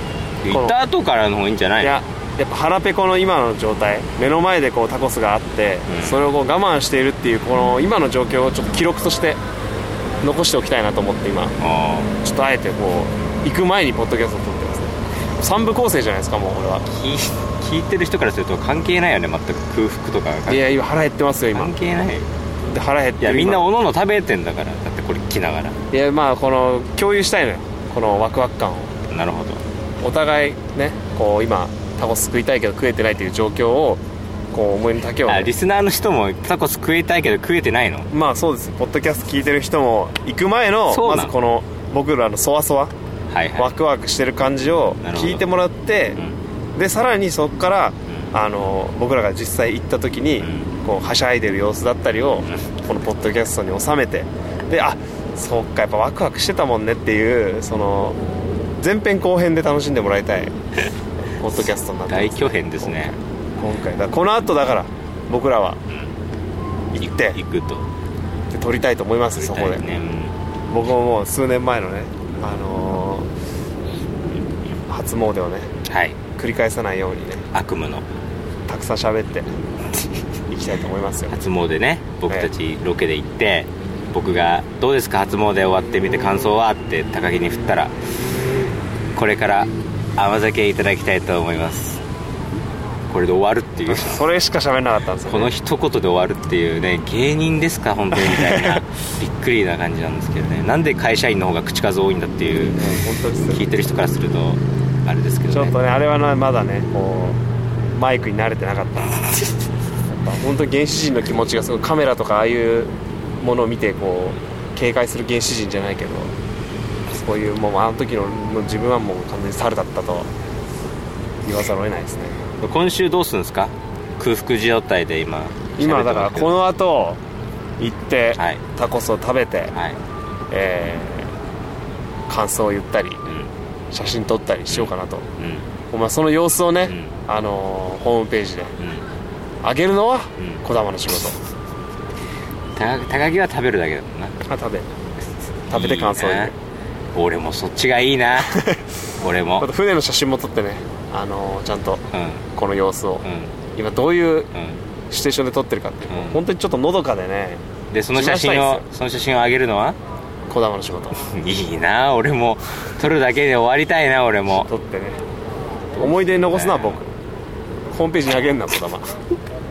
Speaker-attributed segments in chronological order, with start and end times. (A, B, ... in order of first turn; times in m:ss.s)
0:00.4-0:02.0 A
0:00.5-0:00.8 B
0:01.8-0:09.4 B
0:05.9-0:06.2 A
0:10.2-0:11.6 B
0:11.6-0:12.2 A
0:12.2-0:16.8 B
0:16.9-0:20.8 A
0:20.5-0:21.7 B
0:21.5-0:22.3 A
0:22.7-0:23.7 B
0:23.2-0:25.8 A
0:25.9-0:29.0 B
0:29.1-0:29.6 A
0:30.0-0:35.5 B
0:35.3-0:38.1 A
0:38.1-0:42.9 B
0:40.9-0:41.3 A
0:43.3-0:43.7 A
0:43.6-0:46.2 B
0:45.0-0:45.5 A
0:46.8-0:58.2 B
0:50.4-0:50.7 A
0:58.8-1:00.6 B
1:01.4-1:05.8 B
1:02.1-1:03.1 A
1:07.0-1:07.4 B
1:07.0-1:07.9 A
1:08.5-1:10.0 B
1:09.4-1:10.3 A
1:10.7-1:13.3 B
1:14.9-1:15.7 B
1:15.9-1:16.2 A
1:16.4-1:17.4 B
1:17.5-1:18.1 A
1:18.7-1:19.5 B
1:20.5-1:21.4 B
1:21.3-1:27.9 A
1:29.2-1:32.0 A
1:33.1-1:34.2 A
1:33.9-1:35.5 B
1:35.3-1:42.8 A
1:38.1-1:38.8 B
1:42.7-1:43.6 B
1:43.5-1:45.8 A
1:45.5-1:47.4 B
1:47.9-1:49.2 B
1:50.1-1:56.3 B
1:57.1-2:00.3 B
2:01.4-2:02.4 B
2:02.6-2:06.6 A
2:05.8-2:07.2 B
2:07.8-2:09.7 B
2:10.5-2:11.3 B
2:12.3-2:13.2 B
2:13.9-2:15.3 B
2:14.7-2:15.6 A
2:15.9-2:18.8 B
2:16.9-2:17.2 A
2:18.8-2:19.0 A
2:19.6-2:21.4 B
2:22.8-2:24.4 A
2:24.5-2:24.9 B
2:25.7-2:26.5 A
2:25.7-2:26.5 B
2:27.2-2:28.6 A
2:28.4-2:28.8 B
2:29.2-2:29.7 A
2:29.6-2:32.0 B
2:32.1-2:32.4 A
2:32.6-2:34.5 B
2:33.2-2:33.6 A
2:34.5-2:34.8 A
2:35.1-2:37.6 B
2:36.1-2:36.4 A
2:37.9-2:40.0 A
2:38.1-2:38.8 B
2:40.5-2:41.2 B
2:41.2-2:44.7 A
2:44.7-2:45.2 B
2:46.0-2:47.1 B
2:46.3-2:47.0 A
2:47.9-2:49.2 B